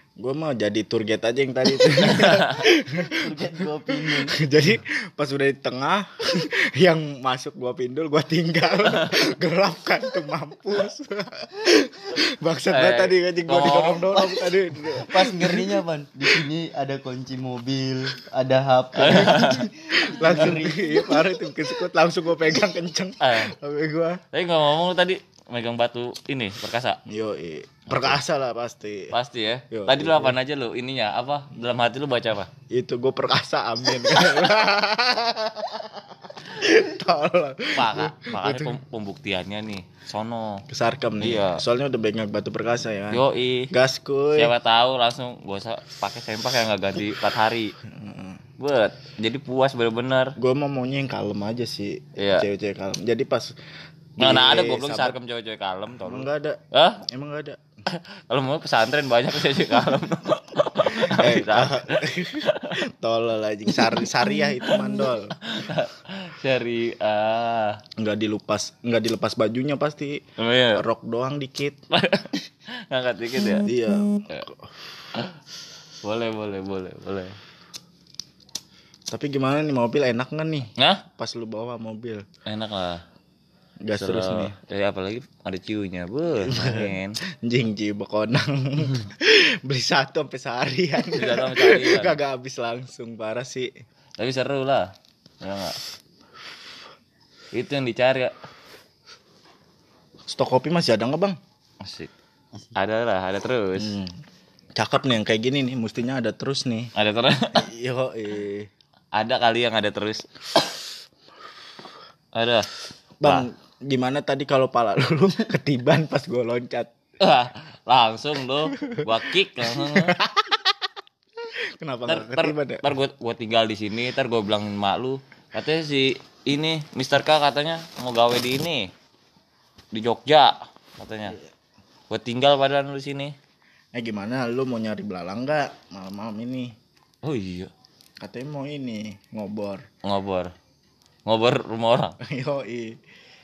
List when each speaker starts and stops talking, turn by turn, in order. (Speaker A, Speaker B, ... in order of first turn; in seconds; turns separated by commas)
Speaker A: 0.2-15.8, Speaker B: 2.0-2.6, Speaker C: 3.1-4.4, Speaker B: 8.9-9.2, Speaker B: 12.7-14.1, Speaker C: 14.1-21.3, Speaker B: 18.9-19.6, Speaker A: 19.0-19.3, Speaker A: 19.9-24.2, Speaker B: 23.2-23.5, Speaker B: 24.3-27.0, Speaker A: 27.1-29.1, Speaker B: 27.9-28.2, Speaker B: 29.1-32.5, Speaker A: 29.7-30.4, Speaker A: 32.7-38.8, Speaker B: 37.7-40.6, Speaker A: 40.7-44.5, Speaker B: 41.2-41.6, Speaker B: 43.1-43.7, Speaker B: 44.4-47.7, Speaker A: 47.8-48.4, Speaker B: 48.6-50.3, Speaker A: 50.4-53.5, Speaker B: 52.2-52.5, Speaker A: 54.2-55.1, Speaker B: 54.2-57.0, Speaker A: 56.0-57.6, Speaker B: 57.9-62.7, Speaker A: 60.9-65.4, Speaker B: 63.7-64.0, Speaker B: 64.8-67.8, Speaker A: 68.0-71.8, Speaker B: 70.4-70.8, Speaker B: 71.9-72.3, Speaker B: 72.9-73.7, Speaker A: 73.6-74.5, Speaker B: 76.0-77.3, Speaker A: 79.1-82.2, Speaker B: 80.8-81.0, Speaker B: 82.5-83.0, Speaker A: 83.8-84.5, Speaker B: 83.9-87.2, Speaker A: 86.4-93.7, Speaker B: 91.1-92.2, Speaker B: 94.2-94.9, Speaker B: 95.4-95.8, Speaker B: 97.5-98.3, Speaker A: 100.3-101.4, Speaker B: 101.8-102.1, Speaker B: 102.8-104.0, Speaker A: 103.8-104.2, Speaker A: 104.8-106.9, Speaker B: 107.0-107.5, Speaker A: 107.5-108.7, Speaker B: 109.1-110.2, Speaker B: 112.3-112.7, Speaker A: 113.2-116.9, Speaker B: 117.2-120.2, Speaker A: 119.5-120.7, Speaker A: 121.5-122.8, Speaker B: 122.1-128.9, Speaker B: 129.9-131.4, Speaker B: 132.1-133.3, Speaker A: 133.9-136.7, Speaker B: 137.2-137.7, Speaker A: 138.2-139.8, Speaker B: 140.0-140.5, Speaker B: 141.2-142.2, Speaker A: 142.2-143.0